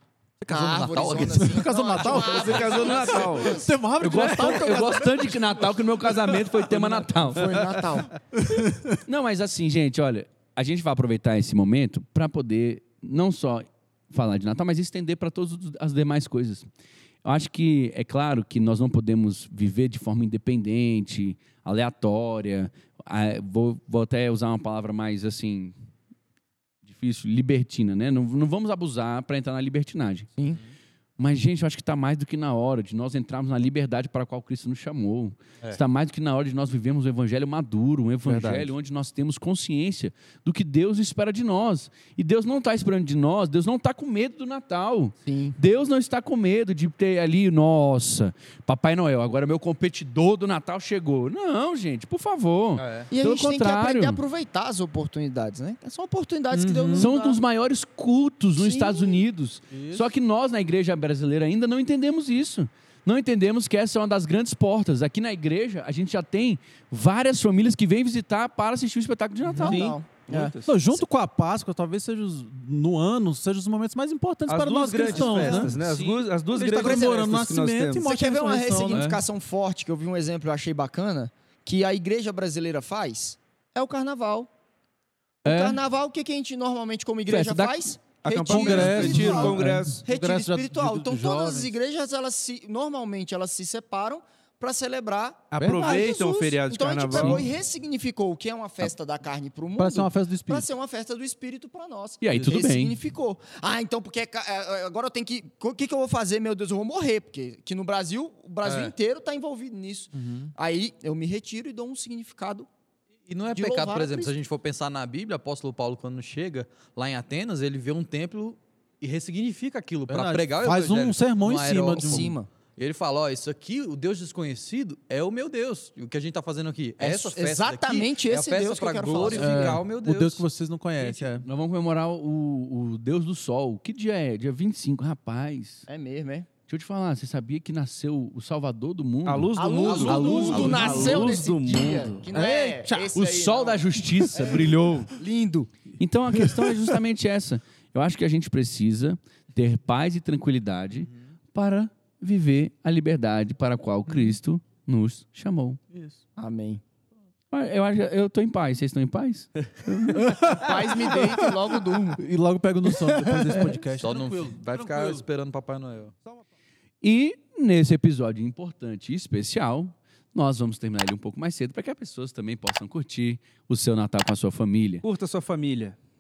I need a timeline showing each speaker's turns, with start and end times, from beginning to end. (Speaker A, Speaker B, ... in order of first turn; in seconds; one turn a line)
Speaker A: 0.4-1.6
Speaker B: 0.5-3.6
Speaker C: 1.3-9.0
Speaker D: 2.1-3.6
Speaker E: 4.0-7.7
Speaker B: 7.2-8.1
Speaker E: 9.1-16.7
Speaker E: 17.2-25.7
Speaker E: 26.9-30.3
Speaker E: 31.2-54.2
Speaker C: 38.3-38.7
Speaker B: 45.3-45.6
Speaker A: 52.8-53.1
Speaker B: 53.1-57.4
Speaker C: 56.5-57.1
Speaker E: 56.9-70.0
Speaker B: 58.6-59.2
Speaker C: 59.7-60.1
Speaker C: 69.5-70.0
Speaker B: 69.6-70.5
Speaker D: 70.3-70.8
Speaker C: 70.6-75.8
Speaker D: 74.5-78.1
Speaker B: 75.1-75.7
Speaker E: 75.5-76.2
Speaker C: 76.5-79.2
Speaker B: 76.7-77.3
Speaker B: 78.0-84.5
Speaker E: 85.5-85.8
Speaker B: 85.5-112.7
Speaker E: 87.3-87.9
Speaker D: 88.2-90.0
Speaker C: 88.5-91.7
Speaker D: 95.5-97.5
Speaker C: 95.5-96.1
Speaker C: 99.8-100.7
Speaker E: 102.2-103.0
Speaker C: 102.3-102.7
Speaker A: 108.6-108.9
Speaker C: 110.1-110.5
Speaker A: 113.2-130.4
Speaker B: 113.5-114.3
Speaker C: 120.1-122.3
Speaker B: 122.0-122.5
Speaker B: 127.0-129.8
Speaker C: 129.3-131.5
Speaker E: 131.0-135.9
Speaker B: 135.9-136.5
Speaker E: 136.7-142.3
Speaker D: 139.3-142.1
Speaker B: 139.6-145.7
Speaker C: 140.2-141.2
Speaker A: 140.5-140.9
Speaker C: 142.3-143.1
Speaker E: 143.1-145.2
Speaker E: 146.0-155.8
Speaker C: 146.4-146.9
Speaker B: 156.4-156.8
Speaker E: 157.5-160.3
Speaker C: 160.1-165.3
Speaker B: 160.4-162.2
Speaker B: 163.1-163.7
Speaker A: 164.0-166.2
Speaker E: 167.0-175.0
Speaker D: 175.0-176.0